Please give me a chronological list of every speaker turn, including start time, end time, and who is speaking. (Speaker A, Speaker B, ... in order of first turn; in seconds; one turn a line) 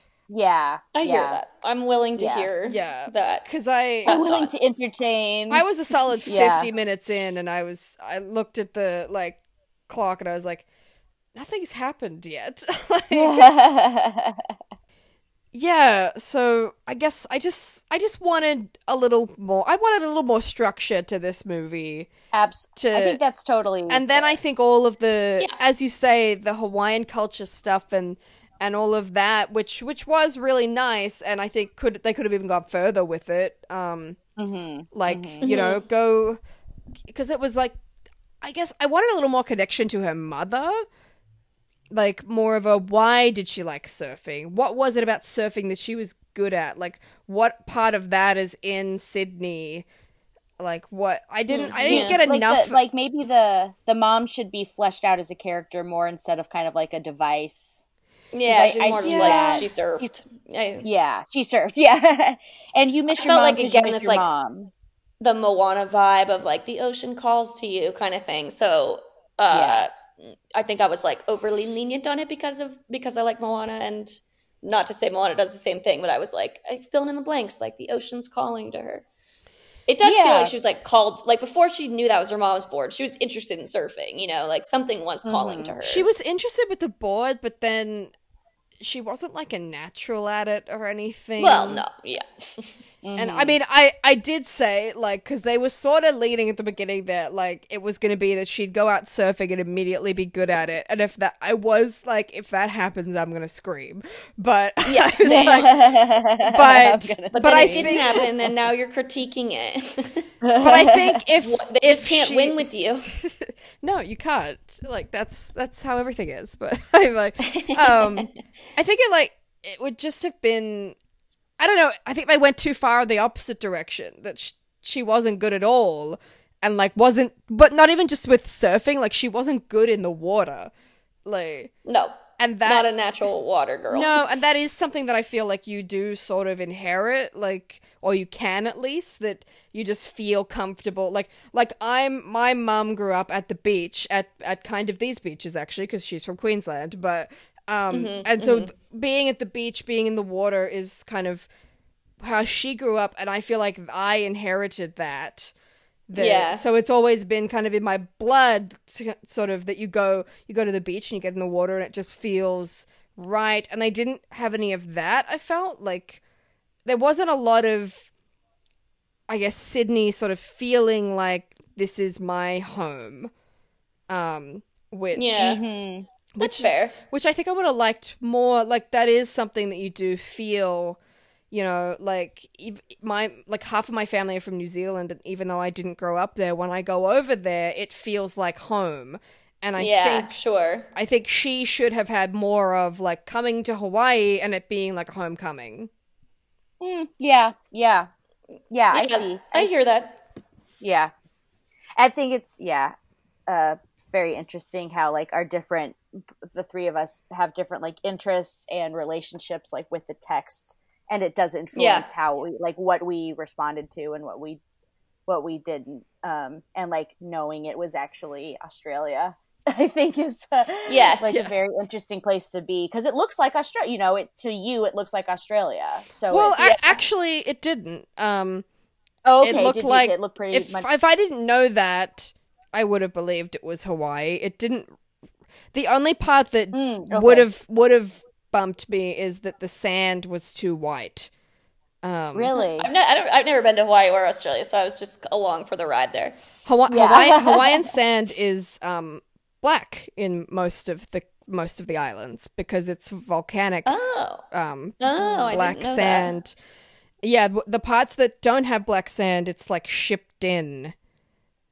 Speaker A: 0.3-1.4
Speaker B: 0.9-3.5
Speaker A: 2.2-2.5
Speaker C: 2.6-4.2
Speaker B: 4.0-4.5
Speaker A: 4.1-5.7
Speaker C: 5.5-10.7
Speaker A: 6.3-6.7
Speaker C: 11.3-13.4
Speaker A: 13.1-14.5
Speaker C: 15.5-22.1
Speaker A: 22.3-24.4
Speaker C: 22.8-23.2
Speaker C: 23.9-34.2
Speaker A: 34.4-35.5
Speaker C: 34.9-36.4
Speaker B: 35.4-35.8
Speaker C: 37.1-37.8
Speaker C: 38.4-40.9
Speaker C: 41.9-49.9
Speaker C: 50.6-52.8
Speaker B: 51.5-52.2
Speaker A: 51.8-57.8
Speaker B: 58.3-60.9
Speaker A: 58.5-60.1
Speaker C: 58.9-59.7
Speaker A: 60.8-64.7
Speaker B: 63.1-64.2
Speaker B: 65.2-79.0
Speaker A: 69.5-69.9
Speaker B: 79.9-86.1
Speaker A: 80.0-80.5
Speaker A: 85.2-85.7
Speaker C: 85.8-88.1
Speaker C: 88.8-91.8
Speaker B: 91.4-92.8
Speaker A: 93.0-93.5
Speaker C: 93.2-108.3
Speaker B: 104.9-105.8
Speaker A: 105.2-108.3
Speaker B: 107.3-110.3
Speaker A: 110.4-111.2
Speaker C: 110.6-121.0
Speaker B: 111.4-113.1
Speaker B: 117.5-118.3
Speaker C: 121.6-130.7
Speaker C: 131.2-131.7
Speaker B: 131.8-134.2
Speaker C: 132.4-132.9
Speaker C: 133.9-151.5
Speaker B: 147.9-148.7
Speaker C: 152.2-155.5
Speaker C: 156.1-166.2
Speaker B: 156.2-156.6
Speaker C: 166.8-168.1
Speaker C: 169.3-173.3
Speaker C: 174.1-175.6
Speaker B: 175.2-175.6
Speaker A: 175.4-176.1
Speaker C: 176.4-181.0
Speaker B: 176.4-177.0
Speaker C: 181.5-190.3
Speaker B: 189.8-190.9
Speaker C: 190.9-195.9
Speaker A: 196.8-198.1
Speaker A: 198.7-199.8
Speaker B: 198.9-200.2
Speaker A: 200.8-201.1
Speaker A: 202.0-202.9
Speaker A: 203.5-214.6
Speaker B: 211.8-212.1
Speaker A: 215.3-226.6
Speaker B: 220.9-221.5
Speaker C: 221.2-221.5
Speaker C: 226.3-228.7
Speaker B: 226.6-227.0
Speaker A: 229.3-230.9
Speaker C: 229.4-234.9
Speaker C: 235.7-241.3
Speaker A: 236.7-237.5
Speaker C: 242.0-242.5
Speaker A: 242.3-242.9
Speaker B: 242.5-246.4
Speaker C: 246.7-253.9
Speaker A: 246.9-247.9
Speaker B: 253.9-254.4
Speaker C: 254.5-256.6
Speaker B: 255.0-256.3
Speaker A: 255.2-255.5
Speaker C: 257.2-260.9